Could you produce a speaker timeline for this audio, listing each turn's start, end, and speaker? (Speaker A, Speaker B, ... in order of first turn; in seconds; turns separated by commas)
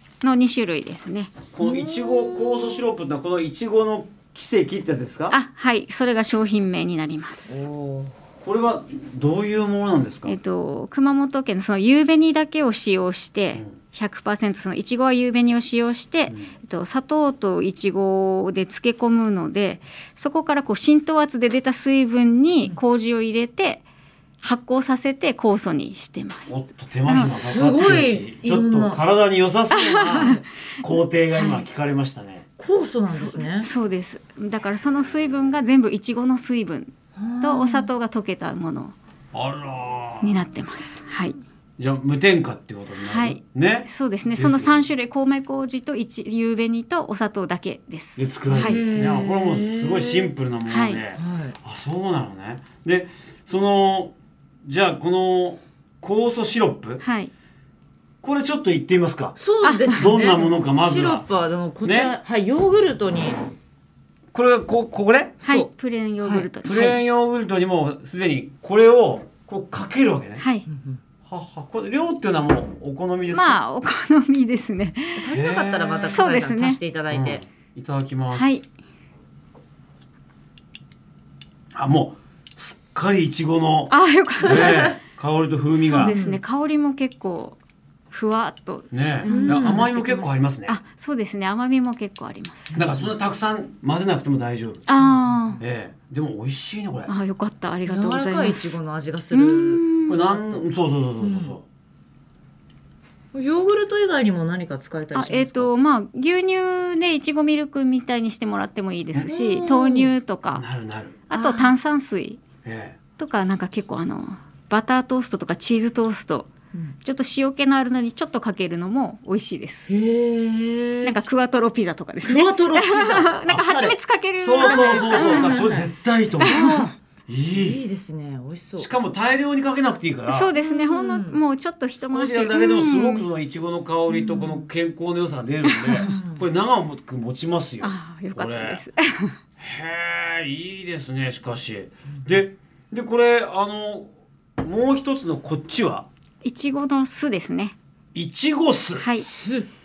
Speaker A: 0.2-1.4, Speaker B: 1.5-5.4, Speaker C: 1.6-2.8, Speaker A: 5.3-7.6, Speaker C: 7.5-8.1, Speaker B: 8.4-10.4, Speaker A: 10.2-23.8, Speaker A: 24.4-26.6, Speaker B: 26.5-32.4, Speaker C: 27.1-29.0, Speaker A: 29.7-30.4, Speaker A: 31.3-31.6, Speaker C: 32.6-33.7, Speaker A: 33.1-38.9, Speaker C: 37.2-37.9, Speaker B: 39.3-40.4, Speaker A: 40.2-41.4, Speaker B: 41.8-44.9, Speaker A: 43.1-48.8, Speaker B: 48.2-54.1, Speaker C: 48.5-50.3, Speaker A: 50.7-51.0, Speaker C: 51.2-51.6, Speaker B: 54.6-57.0, Speaker A: 57.0-57.3, Speaker B: 58.2-59.4, Speaker C: 59.4-63.4, Speaker A: 59.6-60.1, Speaker B: 59.9-61.2, Speaker B: 61.8-62.1, Speaker B: 64.3-65.4, Speaker C: 65.4-65.7, Speaker A: 65.4-67.0, Speaker C: 66.2-66.5, Speaker B: 66.6-70.4, Speaker A: 70.4-70.7, Speaker C: 70.7-71.0, Speaker B: 71.2-73.6, Speaker A: 73.3-75.3, Speaker C: 75.2-77.4, Speaker B: 75.3-76.3, Speaker A: 76.0-76.8, Speaker B: 77.1-78.6, Speaker A: 78.3-78.6, Speaker B: 81.8-86.2, Speaker A: 83.9-85.0, Speaker C: 84.5-84.8, Speaker A: 85.8-87.6, Speaker C: 86.0-86.4, Speaker A: 88.1-92.8, Speaker B: 88.9-90.8, Speaker C: 89.3-89.9, Speaker B: 92.8-94.8, Speaker C: 92.8-93.1, Speaker A: 94.9-95.6, Speaker C: 95.0-95.6, Speaker B: 95.6-97.1, Speaker A: 97.1-98.8, Speaker C: 97.8-100.6, Speaker A: 99.3-100.3, Speaker B: 100.1-101.6, Speaker C: 101.2-101.6, Speaker C: 103.3-105.7, Speaker A: 105.1-110.7, Speaker C: 109.3-110.1, Speaker B: 110.5-111.2, Speaker A: 111.3-112.4, Speaker C: 111.3-111.7, Speaker B: 112.6-113.0, Speaker A: 113.2-116.5, Speaker A: 117.0-119.9, Speaker C: 119.9-121.2, Speaker A: 121.0-125.7, Speaker C: 122.2-124.0, Speaker B: 124.4-126.7, Speaker C: 124.6-125.9, Speaker A: 126.4-126.8, Speaker C: 126.4-126.9, Speaker B: 127.3-127.8, Speaker C: 127.5-128.9, Speaker B: 128.8-130.5, Speaker A: 130.3-133.3, Speaker C: 130.6-131.4, Speaker B: 132.0-138.8, Speaker C: 134.1-134.7, Speaker A: 135.7-136.1, Speaker C: 135.9-136.4, Speaker A: 137.8-139.4, Speaker B: 139.6-146.1, Speaker A: 146.4-147.8, Speaker B: 148.1-149.1, Speaker A: 148.9-149.3, Speaker C: 149.2-149.7